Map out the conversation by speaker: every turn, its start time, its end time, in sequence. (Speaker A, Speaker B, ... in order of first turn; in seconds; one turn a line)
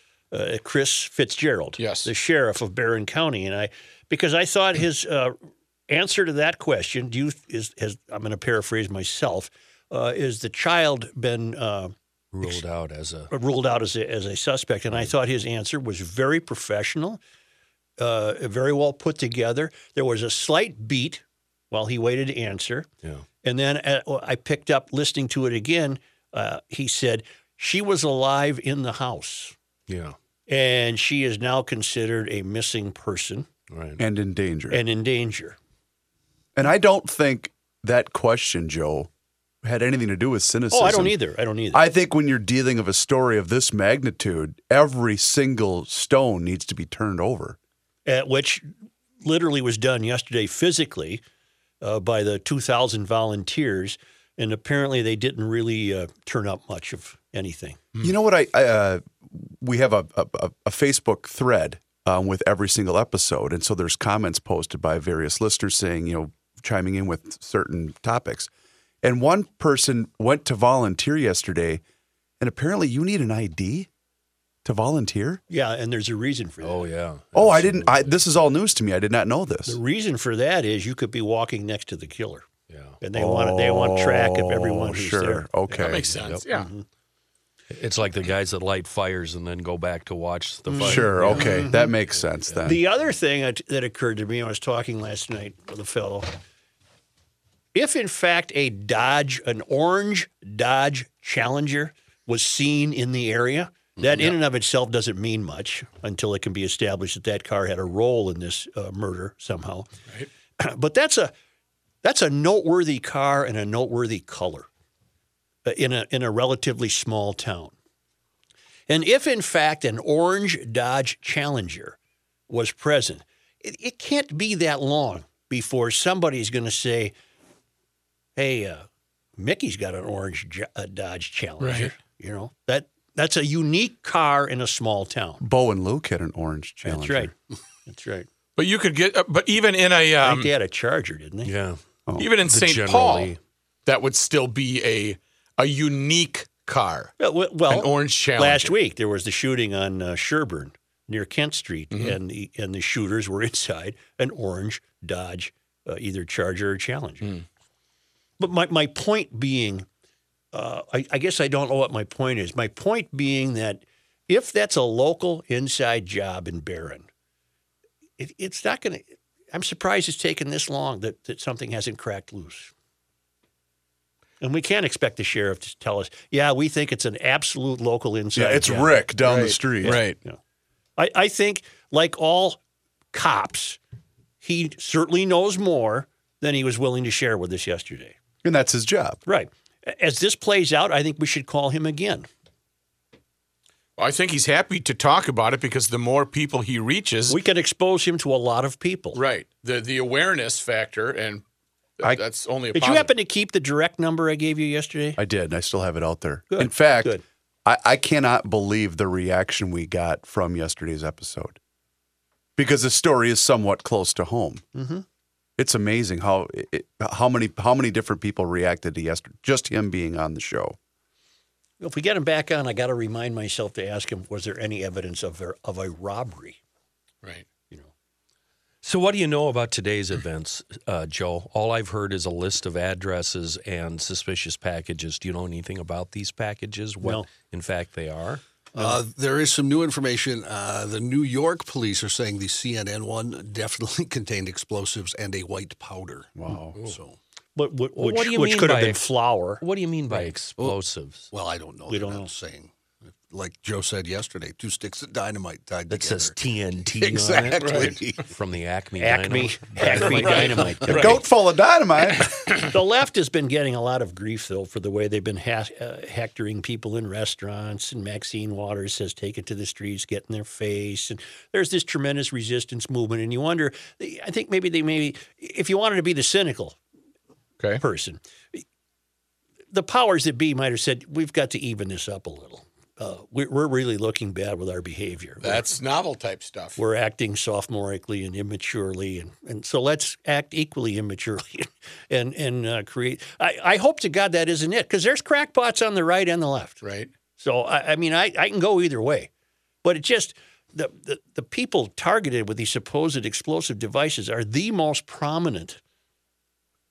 Speaker A: 0.3-5.4
Speaker B: 1.8-2.1
Speaker A: 5.9-12.6
Speaker C: 12.3-13.3
Speaker A: 13.3-17.2
Speaker A: 18.0-22.9
Speaker A: 23.4-29.6
Speaker C: 29.9-30.2
Speaker A: 30.5-33.5
Speaker C: 33.7-34.0
Speaker D: 34.0-34.8
Speaker A: 34.7-35.6
Speaker D: 36.6-39.1
Speaker D: 39.6-41.2
Speaker A: 40.7-41.9
Speaker D: 41.7-47.6
Speaker A: 48.1-51.2
Speaker A: 51.8-57.8
Speaker D: 58.0-68.5
Speaker D: 69.0-71.8
Speaker D: 72.4-73.9
Speaker D: 74.6-75.4
Speaker A: 75.5-76.9
Speaker C: 76.6-78.2
Speaker D: 77.3-79.8
Speaker A: 79.7-82.5
Speaker C: 82.7-83.0
Speaker A: 83.0-86.9
Speaker D: 83.1-86.0
Speaker B: 85.8-86.7
Speaker C: 87.7-91.7
Speaker A: 90.7-91.9
Speaker D: 90.8-92.8
Speaker C: 92.5-92.7
Speaker A: 92.6-96.3
Speaker A: 97.8-109.9
Speaker A: 110.6-111.3
Speaker A: 112.0-114.7
Speaker A: 115.7-117.7
Speaker A: 118.9-122.0
Speaker A: 122.5-127.1
Speaker A: 128.4-128.8
Speaker A: 129.4-135.4
Speaker B: 131.6-131.9
Speaker D: 135.4-137.3
Speaker A: 136.8-137.3
Speaker A: 137.9-138.3
Speaker B: 138.6-140.5
Speaker A: 140.2-141.5
Speaker C: 141.4-143.4
Speaker B: 142.2-143.3
Speaker B: 143.9-147.1
Speaker A: 147.2-157.3
Speaker B: 147.7-148.8
Speaker B: 151.9-152.2
Speaker A: 158.4-159.9
Speaker A: 160.5-167.1
Speaker A: 168.2-172.7
Speaker A: 174.4-179.0
Speaker D: 178.3-180.0
Speaker B: 179.2-180.2
Speaker A: 179.8-180.4
Speaker A: 181.0-182.6
Speaker A: 183.1-183.8
Speaker A: 184.4-188.2
Speaker D: 188.4-189.2
Speaker A: 189.3-192.3
Speaker B: 194.0-197.4
Speaker A: 197.3-199.2
Speaker B: 199.1-201.4
Speaker B: 202.0-203.1
Speaker A: 202.7-205.2
Speaker D: 205.2-211.6
Speaker A: 206.5-207.2
Speaker D: 212.6-214.6
Speaker A: 214.7-215.1
Speaker D: 215.6-220.8
Speaker A: 221.8-226.6
Speaker C: 228.8-238.4
Speaker A: 237.0-237.3
Speaker E: 238.8-247.2
Speaker D: 246.4-246.8
Speaker A: 247.6-249.6
Speaker C: 248.0-249.0
Speaker C: 249.6-251.3
Speaker E: 251.3-252.7
Speaker A: 251.9-252.3
Speaker E: 253.3-256.4
Speaker C: 255.9-260.6
Speaker E: 257.0-258.2
Speaker B: 257.6-258.0
Speaker A: 259.0-261.3
Speaker E: 260.1-260.7
Speaker B: 260.1-261.2
Speaker D: 260.9-262.7
Speaker A: 262.6-276.8
Speaker A: 277.8-278.6
Speaker A: 279.7-285.6
Speaker B: 285.4-286.8
Speaker A: 286.8-296.8
Speaker B: 296.8-297.1
Speaker A: 297.4-299.3
Speaker A: 299.8-305.8